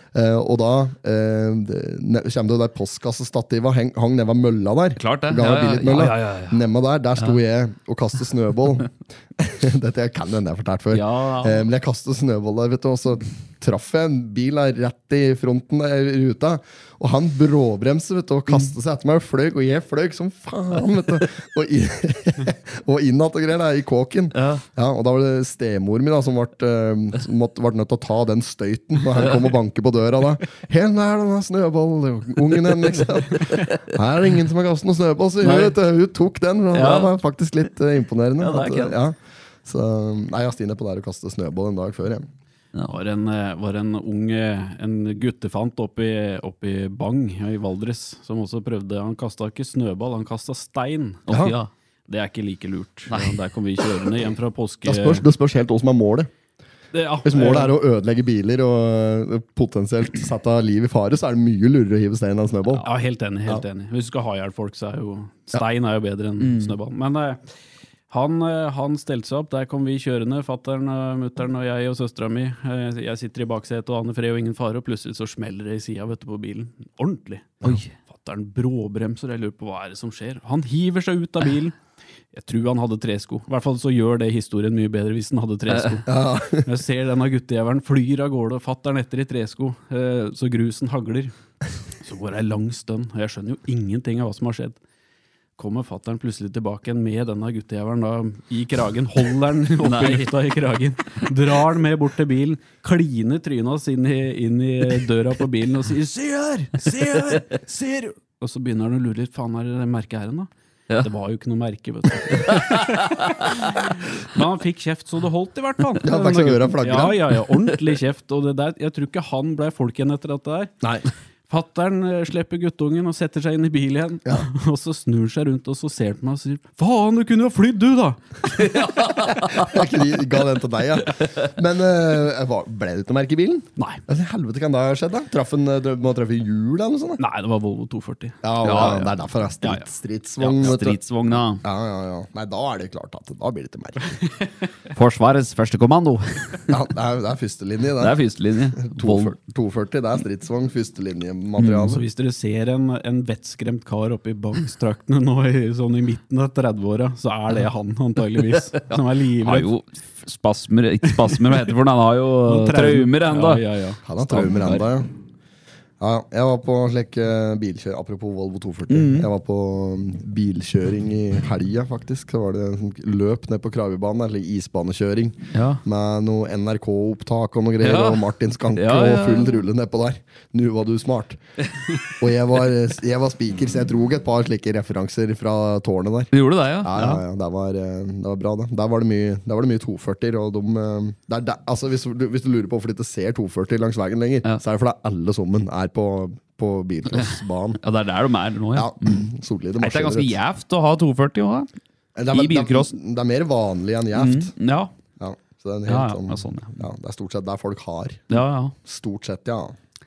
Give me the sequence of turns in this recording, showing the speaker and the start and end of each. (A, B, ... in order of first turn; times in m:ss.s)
0:00.1-0:42.3 A
0:05.0-0:06.6 B
0:10.9-0:11.7 B
0:24.4-0:24.6 B
0:35.4-0:35.8 B
0:36.7-0:37.1 B
0:38.4-0:39.0 B
0:42.9-0:51.2 C
0:51.3-0:51.6 A
0:51.3-0:51.7 B
0:52.1-0:55.2 C
0:53.1-0:53.4 B
0:54.8-0:56.3 A
0:56.9-0:57.8 C
0:57.2-1:02.8 A
1:02.8-1:07.4 C
1:06.4-1:06.7 B
1:08.1-1:21.8 C
1:17.6-1:17.9 B
1:22.3-1:31.3 C
1:26.1-1:26.7 A
1:32.0-1:34.8 C
1:35.6-1:50.5 C
1:39.8-1:40.3 B
1:51.0-2:00.7 C
1:52.3-1:53.6 B
1:56.0-1:57.2 A
2:00.8-2:01.1 A
2:01.5-2:08.8 C
2:08.6-2:09.8 B
2:09.3-2:17.2 A
2:17.2-2:18.9 C
2:18.4-2:21.0 A
2:18.6-2:19.1 B
2:20.4-2:21.6 B
2:21.5-2:24.2 A
2:24.9-2:26.7 B
2:26.7-2:28.2 A
2:28.0-2:29.4 B
2:28.8-2:32.0 A
2:31.6-2:32.0 B
2:31.9-2:39.7 C
2:38.9-2:43.6 B
2:41.1-2:41.6 C
2:42.5-2:44.0 C
2:44.0-2:45.1 A
2:44.3-2:44.8 B
2:46.0-3:01.4 A
2:48.9-2:49.3 B
2:55.5-2:55.8 B
2:57.8-2:59.6 B
3:02.2-3:17.8 A
3:06.3-3:07.2 B
3:17.2-3:19.2 B
3:18.7-3:20.4 A
3:19.8-3:21.7 B
3:22.2-3:24.5 A
3:22.3-3:22.9 B
3:24.2-3:24.9 B
3:25.2-3:29.8 A
3:25.9-3:26.8 B
3:28.3-3:28.8 B